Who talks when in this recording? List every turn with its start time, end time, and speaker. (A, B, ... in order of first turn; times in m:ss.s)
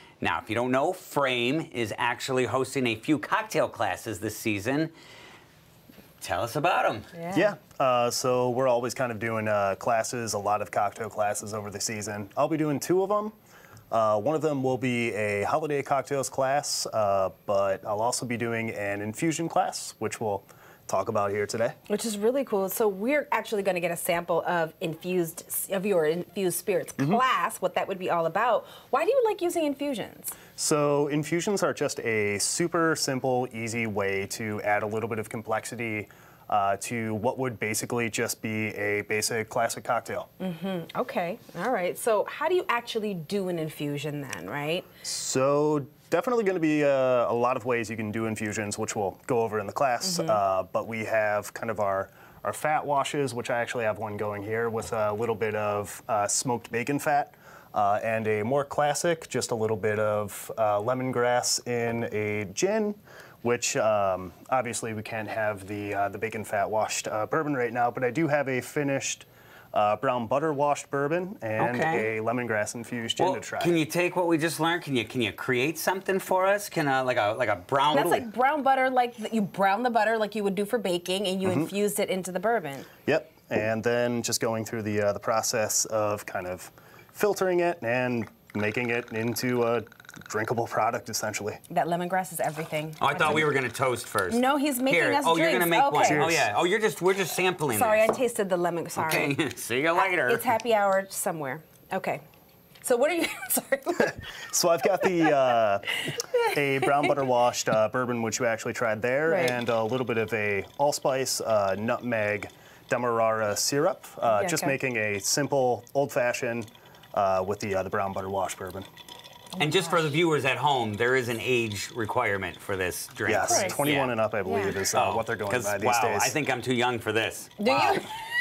0:00.2-0:04.9 A
0:06.2-0:07.1 A
0:07.1-0:07.5 B
0:07.3-0:13.3 C
0:13.9-0:21.8 C
0:21.9-0:30.4 B
0:30.6-0:40.3 C
0:40.4-0:44.9 B
0:45.0-1:13.8 C
0:50.0-0:50.4 B
1:11.6-1:12.1 A
1:13.2-1:18.3 A
1:17.9-1:22.9 B
1:21.4-1:21.7 C
1:23.1-1:31.6 C
1:31.7-1:33.5 B
1:33.0-1:38.0 A
1:34.3-1:36.4 B
1:36.0-1:36.5 C
1:37.7-1:39.4 B
1:39.0-1:40.4 A
1:39.9-1:42.2 B
1:42.8-1:44.3 B
1:44.1-1:58.9 C
1:46.1-1:47.1 B
1:49.3-1:49.6 B
1:54.3-1:54.8 B
1:59.5-2:00.1 B
1:59.6-2:04.1 A
2:03.3-2:06.4 C
2:03.4-2:03.8 B
2:04.4-2:04.8 B
2:04.9-2:08.1 A
2:07.6-2:08.2 B